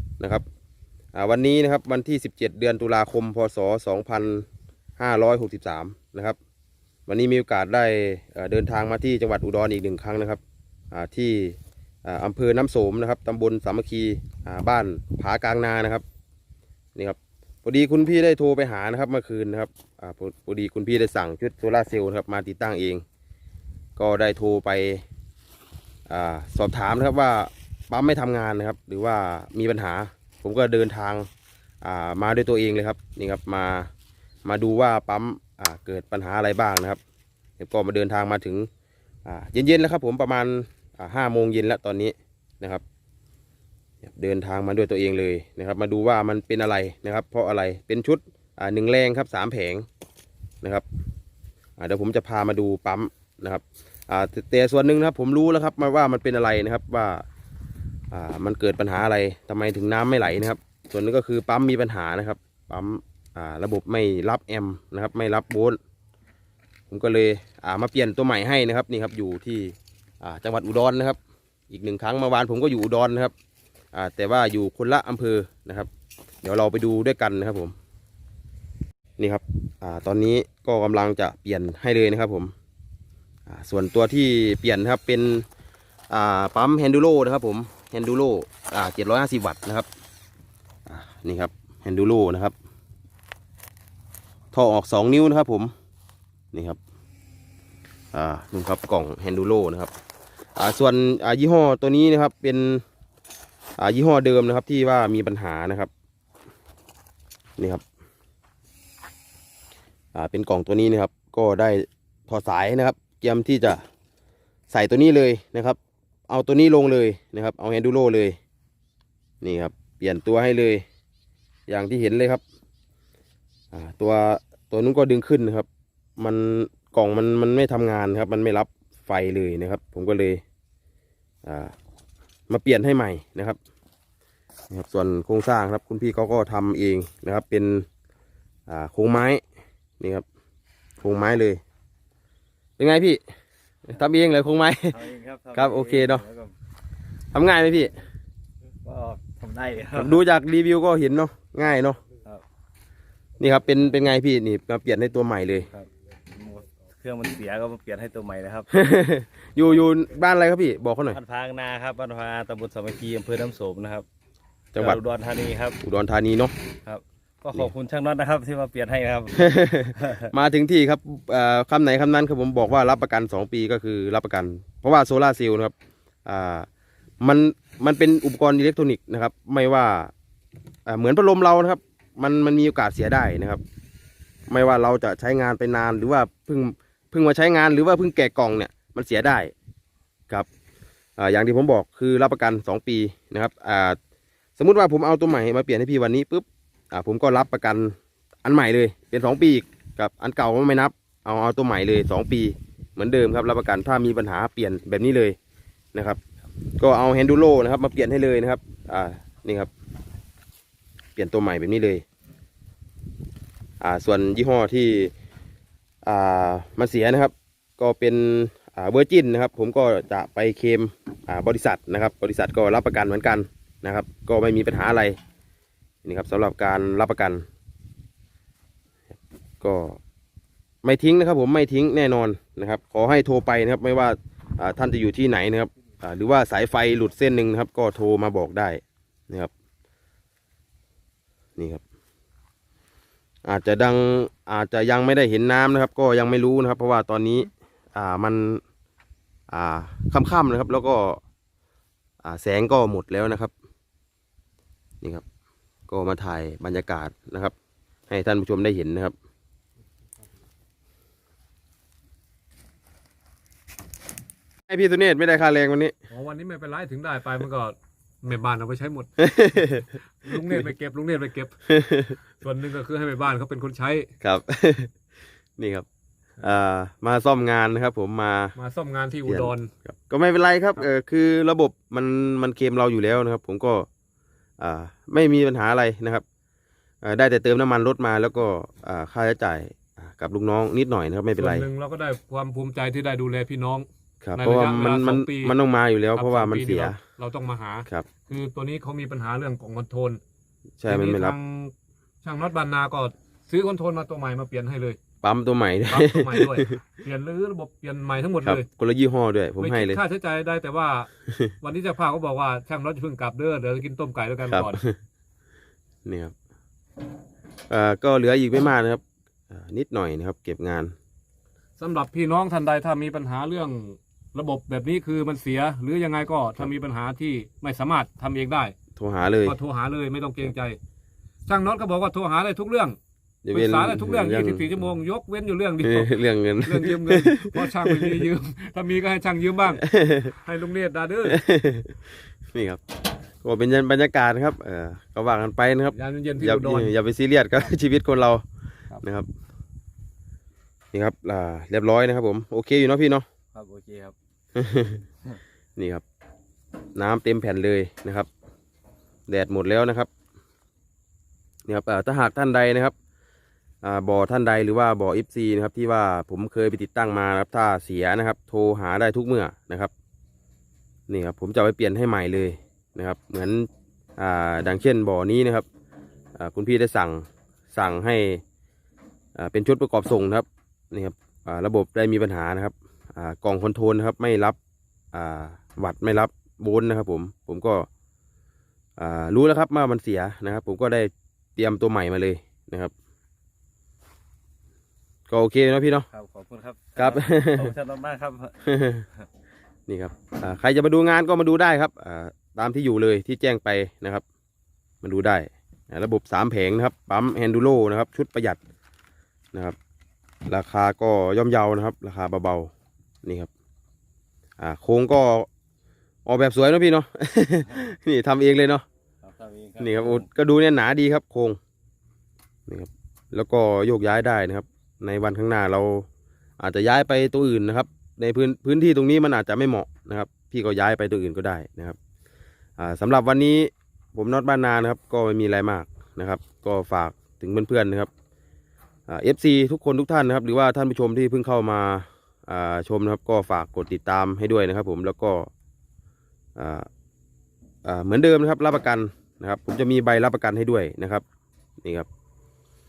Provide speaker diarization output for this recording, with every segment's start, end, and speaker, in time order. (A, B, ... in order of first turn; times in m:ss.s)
0:00.2-0:00.4 A
0:01.1-0:04.4 A
0:05.0-0:06.4 A
0:07.1-0:16.0 A
0:16.9-0:23.0 A
0:24.0-0:25.0 A
0:26.1-0:31.3 A
0:31.8-0:33.9 A
0:34.4-0:37.0 A
0:37.6-0:38.7 A
0:39.2-0:42.8 A
0:44.0-0:49.8 A
0:51.8-0:57.2 A
0:58.1-1:05.8 A
1:06.9-1:11.2 A
1:11.7-1:13.3 A
1:13.9-1:15.9 A
1:16.4-1:17.7 A
1:19.2-1:22.5 A
1:23.5-1:25.4 A
1:26.1-1:29.9 A
1:30.8-1:32.5 A
1:34.5-1:35.7 A
1:36.5-1:36.8 A
1:38.1-1:39.9 A
1:40.6-1:42.8 A
1:43.8-1:45.9 A
1:47.6-1:47.8 A
1:50.1-1:53.8 A
1:54.7-1:55.8 A
1:56.3-1:58.4 A
1:59.4-2:00.8 A
2:01.7-2:02.4 A
2:03.7-2:10.4 A
2:11.4-2:11.7 A
2:12.5-2:13.6 A
2:14.7-2:17.9 A
2:18.7-2:19.4 A
2:20.0-2:20.2 A
2:21.0-2:21.6 A
2:22.8-2:23.2 A
2:23.8-2:25.0 A
2:24.9-2:26.5 B
2:25.5-2:26.2 A
2:27.3-2:27.9 A
2:28.8-2:30.2 B
2:29.9-2:32.0 A
2:33.4-2:35.7 A
2:35.7-2:38.7 B
2:38.7-2:41.2 A
2:41.1-2:44.0 B
2:44.7-2:45.0 A
2:44.8-2:45.8 B
2:45.8-2:46.5 A
2:46.8-2:50.3 B
2:49.3-2:55.7 A
2:56.2-2:56.7 A
2:57.2-3:00.1 A
3:00.8-3:03.6 A
3:04.5-3:09.5 A
3:11.2-3:14.0 A
3:14.6-3:25.4 A
3:25.9-3:26.2 A
3:26.8-3:29.7 A
3:31.2-3:32.0 A
3:33.8-3:35.1 A
3:36.0-3:45.2 A
3:46.0-3:47.4 A
3:49.6-3:50.0 A
3:50.8-3:59.5 A
4:01.6-4:01.8 A
4:03.4-4:08.6 A
4:09.5-4:11.2 A
4:12.2-4:13.5 A
4:15.9-4:17.5 A
4:18.1-4:19.1 A
4:24.7-4:25.9 A
4:26.1-4:31.5 C
4:29.2-4:29.8 A
4:31.7-4:32.2 A
4:32.4-4:34.1 C
4:34.2-4:34.9 A
4:35.6-4:35.8 A
4:36.4-4:38.6 A
4:38.6-4:39.7 C
4:39.2-4:43.9 A
4:44.6-4:46.2 A
4:47.0-4:51.7 A
4:51.4-4:55.6 C
4:54.2-4:57.0 A
4:56.1-5:00.2 C
5:00.8-5:01.4 A
5:00.9-5:05.0 C
5:05.2-5:06.8 A
5:05.9-5:08.7 C
5:08.4-5:10.0 A
5:09.6-5:11.1 C
5:11.6-5:14.8 C
5:14.5-5:15.0 A
5:16.0-5:16.3 A
5:17.7-5:20.9 A
5:21.8-5:28.7 C
5:29.0-5:29.6 A
5:29.4-5:30.8 C
5:31.4-5:33.0 C
5:33.4-5:34.9 A
5:33.5-5:39.8 C
5:35.8-5:38.2 A
5:39.8-5:40.3 A
5:40.4-5:41.4 C
5:41.2-5:42.8 A
5:43.4-5:48.4 A
5:45.9-5:46.9 C
5:49.0-5:49.3 A
5:50.9-5:53.2 A
5:53.5-5:54.2 B
5:54.5-5:55.0 A
5:55.8-5:56.0 A
5:57.0-5:58.3 A
5:59.3-6:00.1 A
6:01.7-6:02.9 A
6:03.8-6:09.9 A
6:11.1-6:15.6 A
6:16.4-6:18.4 A
6:19.3-6:24.6 A
6:25.1-6:27.9 A
6:29.0-6:32.9 A
6:35.3-6:36.1 A
6:36.1-6:38.6 B
6:37.0-6:37.7 A
6:38.6-6:39.0 A
6:39.9-6:44.2 A
6:45.0-6:48.6 A
6:50.5-6:52.7 A
6:53.2-6:53.5 A
6:54.6-6:55.5 A
6:56.2-6:58.8 A
6:59.2-7:00.3 B
6:59.8-7:01.6 A
7:02.7-7:06.1 A
7:06.6-7:12.0 A
7:12.8-7:18.1 A
7:19.1-7:25.5 A
7:26.6-7:26.9 A
7:27.8-7:31.2 A
7:31.8-7:32.1 A